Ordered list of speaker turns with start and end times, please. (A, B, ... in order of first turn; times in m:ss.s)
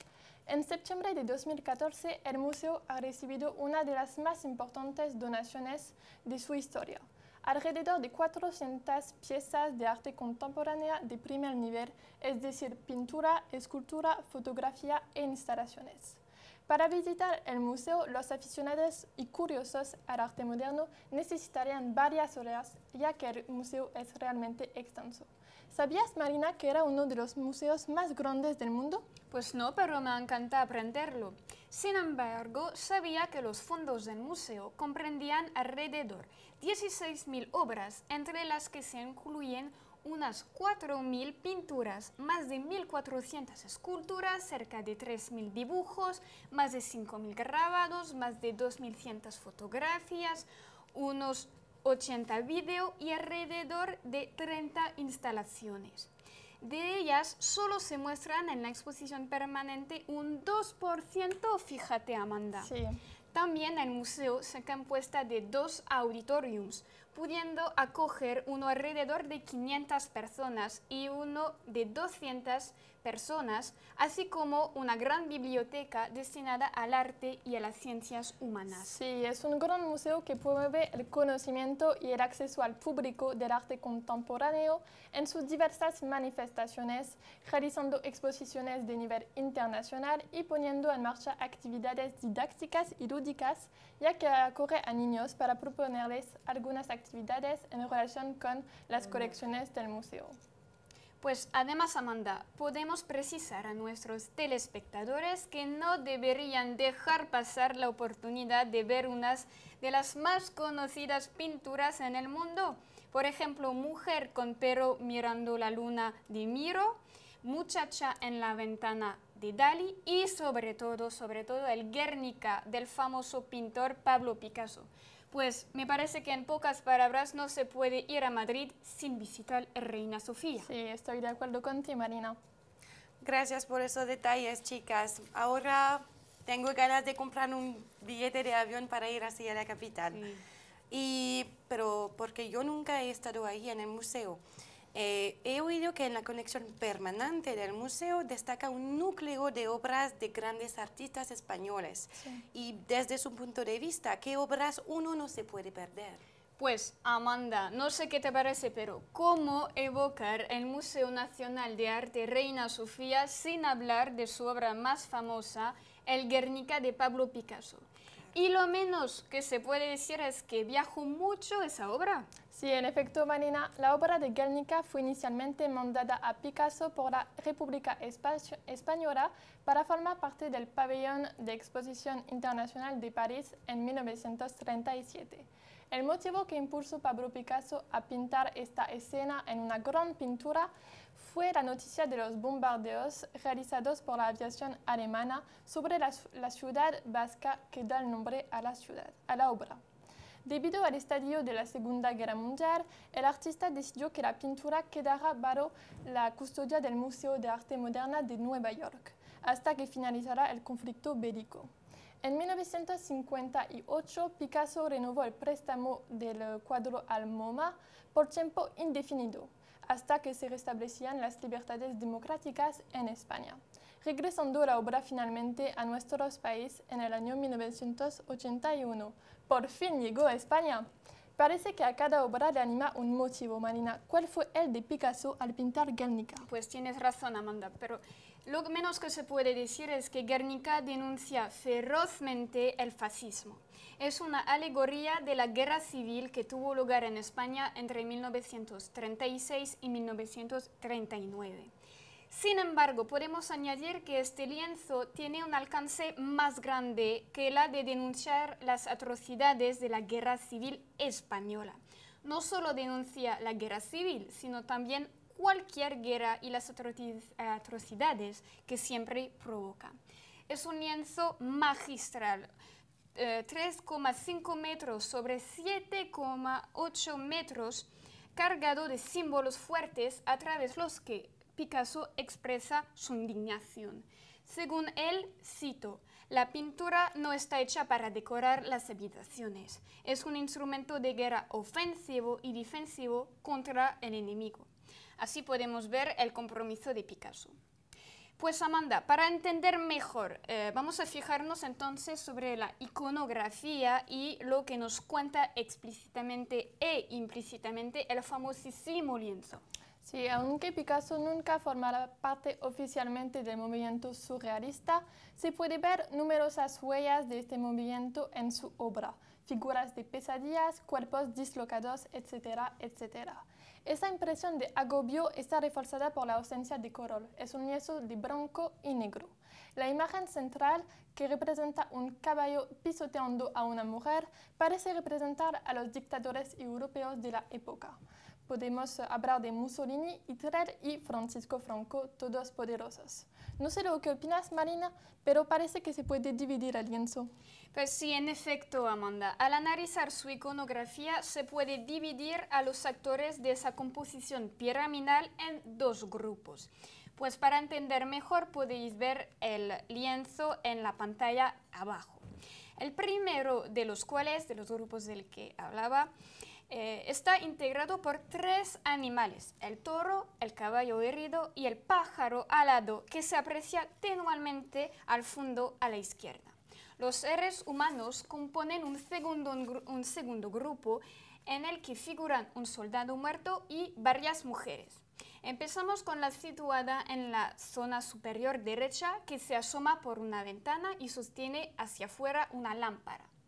0:00.5-0:29.1 A
0:29.3-0:56.1 B
0:56.6-1:02.7 B
1:02.6-1:03.0 A
1:03.3-1:18.9 B
1:18.8-1:40.4 A
1:41.2-2:10.7 B
2:10.6-2:12.4 A
2:13.2-2:20.3 C
2:20.1-2:20.4 B
2:20.9-2:24.4 C
2:24.9-2:36.2 C
2:36.6-2:52.3 B
2:52.5-3:19.8 A
3:20.4-3:31.7 A
3:32.2-3:56.4 A
3:56.4-4:11.7 B
4:12.3-4:30.0 B
4:30.5-4:32.5 B
4:33.2-4:57.6 B
4:58.4-5:09.6 B
5:10.0-5:47.3 A
5:47.7-6:02.2 B
6:02.8-6:06.1 B
6:06.7-6:33.3 B